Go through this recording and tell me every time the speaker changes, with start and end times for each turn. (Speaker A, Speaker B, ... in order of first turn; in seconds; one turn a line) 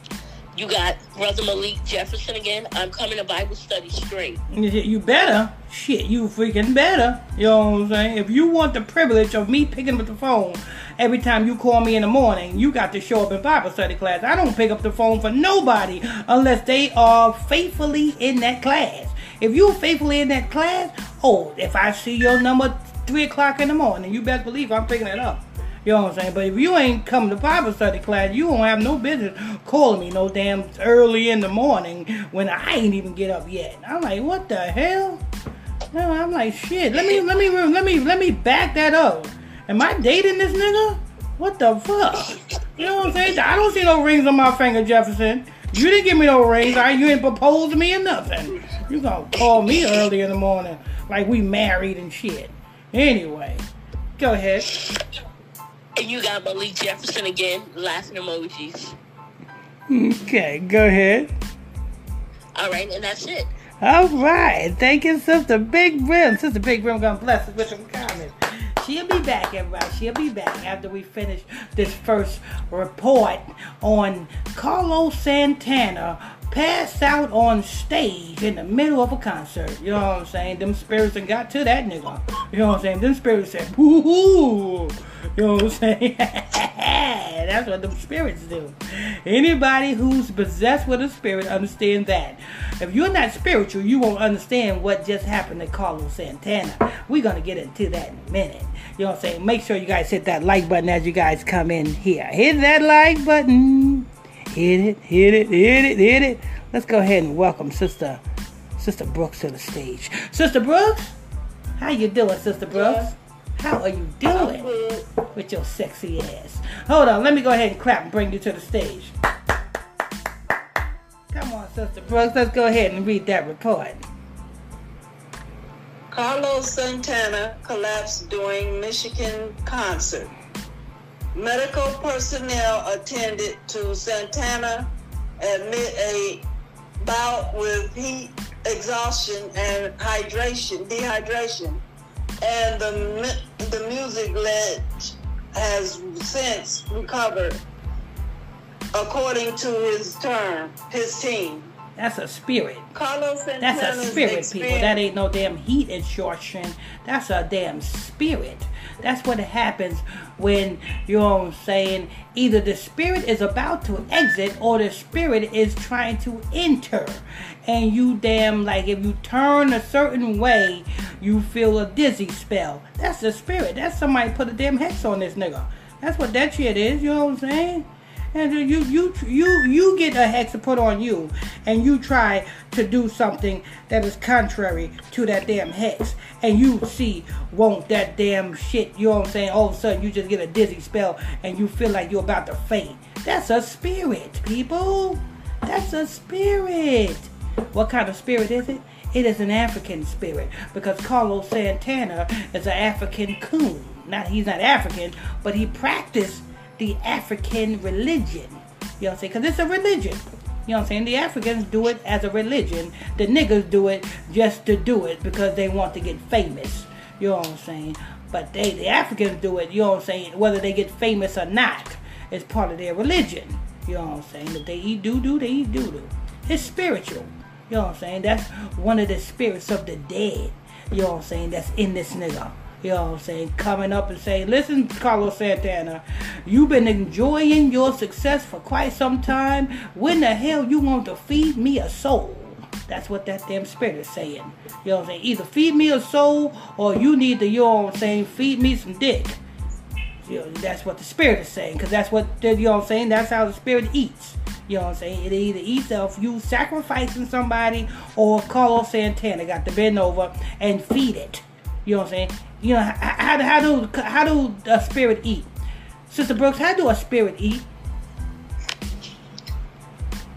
Speaker A: 0.5-4.4
Speaker B: 4.5-35.2
Speaker B: 35.9-53.6
Speaker B: 54.2-54.7
Speaker A: 56.0-58.9
Speaker B: 59.9-61.3
Speaker A: 62.5-63.5
Speaker B: 63.8-108.2
Speaker B: 108.8-111.2
Speaker B: 111.8-114.7
Speaker C: 112.7-113.1
Speaker C: 114.3-115.1
Speaker B: 115.3-119.1
Speaker B: 121.3-124.0
Speaker C: 126.1-130.3
Speaker C: 131.3-136.4
Speaker C: 137.0-141.8
Speaker C: 142.4-144.9
Speaker C: 145.5-147.6
Speaker C: 148.9-151.7
Speaker B: 151.9-152.9
Speaker C: 152.9-155.0
Speaker B: 153.6-249.4
Speaker B: 250.2-265.5
Speaker B: 266.1-267.6